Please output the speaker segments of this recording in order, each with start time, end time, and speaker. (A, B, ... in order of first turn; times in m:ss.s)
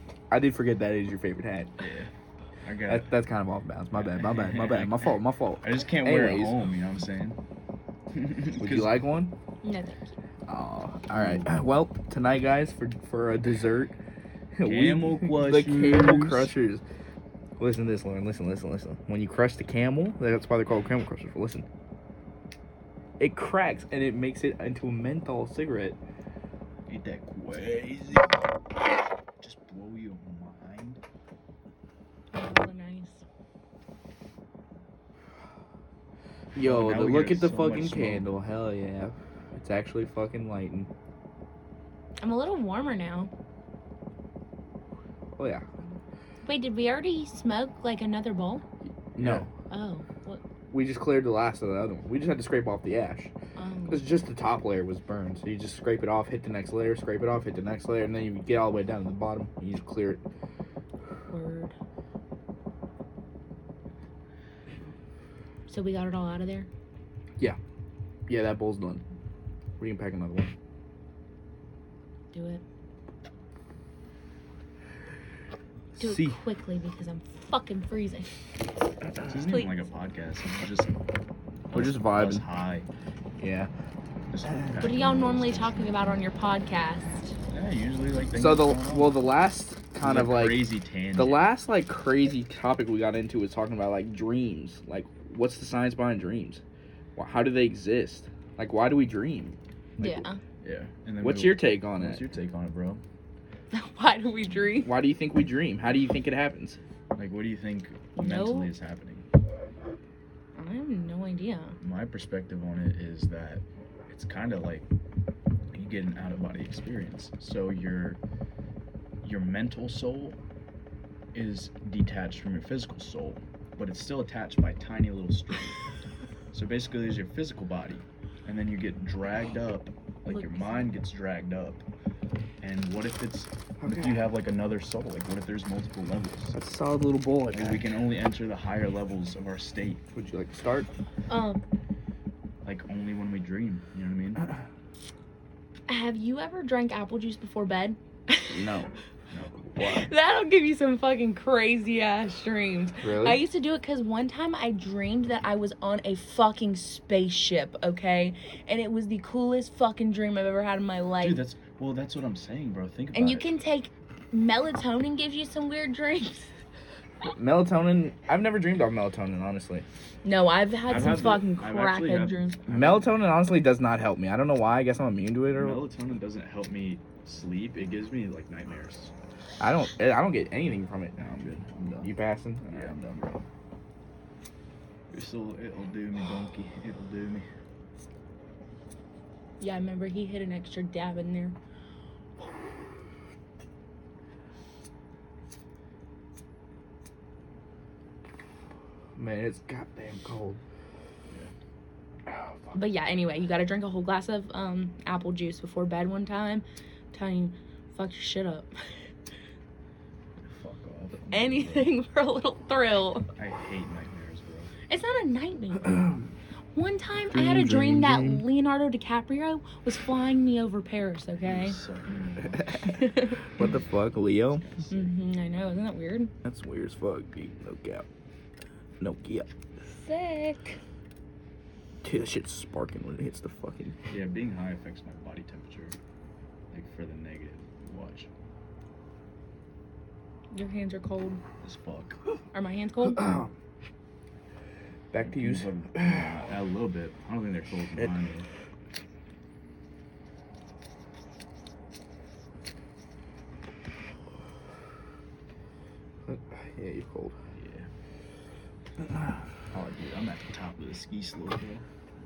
0:00.3-0:01.7 A
0:01.8-0:02.1 B
0:02.6-0:03.1 B
0:02.8-0:06.6 A
0:03.9-0:07.4 B
0:08.1-0:09.0 B
0:08.6-0:09.3 A
0:09.6-0:10.2 C
0:10.5-0:14.0 A
0:11.1-0:11.5 B
0:14.5-0:16.8 A
0:14.6-0:16.5 B
0:17.6-0:21.6 A
0:23.2-0:26.0 A
0:26.9-0:28.4 B
0:29.4-0:31.0 B
0:32.3-0:33.2 C
0:36.5-0:40.9 A
0:36.6-0:38.3 B
0:42.2-0:43.3 C
0:45.3-0:45.7 A
0:46.4-0:48.6 C
0:49.2-0:49.5 A
0:49.2-0:49.5 B
0:49.7-0:50.4 C
0:50.7-0:53.3 A
0:53.6-0:54.1 C
0:53.9-1:00.2 A
1:01.3-1:01.7 C
1:05.7-1:06.7 C
1:08.3-1:09.0 A
1:09.8-1:10.5 A
1:12.3-1:12.6 C
1:16.0-1:18.3 C
1:16.0-1:16.4 A
1:19.2-1:20.9 B
1:19.4-1:19.8 C
1:21.7-1:22.9 B
1:21.7-1:22.4 A
1:23.4-1:23.7 A
1:24.3-1:26.1 B
1:24.4-1:24.8 A
1:24.8-1:27.3 C
1:27.5-1:29.2 B
1:28.3-1:36.6 A
1:30.0-1:31.5 B
1:37.2-1:39.6 A
1:40.0-1:40.4 C
1:40.0-1:43.0 B
1:41.2-1:42.2 A
1:43.7-1:44.9 C
1:44.8-1:46.8 A
1:47.1-1:49.2 B
1:48.1-1:48.7 C
1:50.6-1:51.8 C
1:51.8-1:54.8 B
1:55.7-1:58.2 B
1:59.2-2:00.4 B
2:01.3-2:05.8 B
2:06.5-2:11.8 B
2:10.2-2:11.0 C
2:12.6-2:16.5 B
2:13.8-2:14.2 A
2:16.5-2:17.9 A
2:17.5-2:20.0 B
2:20.1-2:20.9 A
2:21.3-2:21.6 C
2:22.6-2:24.4 B
2:25.9-2:28.6 C
2:28.5-2:28.9 A
2:29.3-2:29.7 B
2:29.8-2:30.0 A
2:29.8-2:41.4 C
2:33.0-2:33.4 A
2:41.2-2:43.5 B
2:43.1-2:46.5 C
2:47.2-2:49.8 A
2:50.2-2:52.6 C
2:50.8-2:53.2 B
2:52.7-2:55.8 A
2:55.5-2:59.1 B
2:59.6-3:01.2 A
3:01.2-3:02.1 B
3:02.0-3:02.9 A
3:02.6-3:03.4 B
3:05.1-3:07.5 B
3:09.6-3:11.6 C
3:19.2-3:20.6 A
3:22.7-3:28.7 C
3:30.4-3:31.9 B
3:31.3-3:33.3 C
3:33.4-3:34.7 B
3:34.9-3:36.2 C
3:36.7-3:41.8 C
3:37.3-3:38.4 A
3:41.4-3:43.0 B
3:42.9-3:43.4 C
3:43.6-3:44.6 A
3:43.6-3:43.8 B
3:44.4-3:45.1 B
3:44.9-3:46.3 C
3:46.4-3:48.0 A
3:49.0-3:49.5 A
3:49.9-3:50.8 C
3:52.0-3:53.9 A
3:54.1-3:55.9 B
3:56.7-3:58.3 B
4:00.5-4:01.4 C
4:01.6-4:02.2 B
4:02.5-4:03.5 C
4:03.2-4:03.5 A
4:05.1-4:06.4 A
4:05.2-4:08.5 B
4:16.2-4:17.4 A
4:17.5-4:17.9 B
4:19.7-4:21.8 B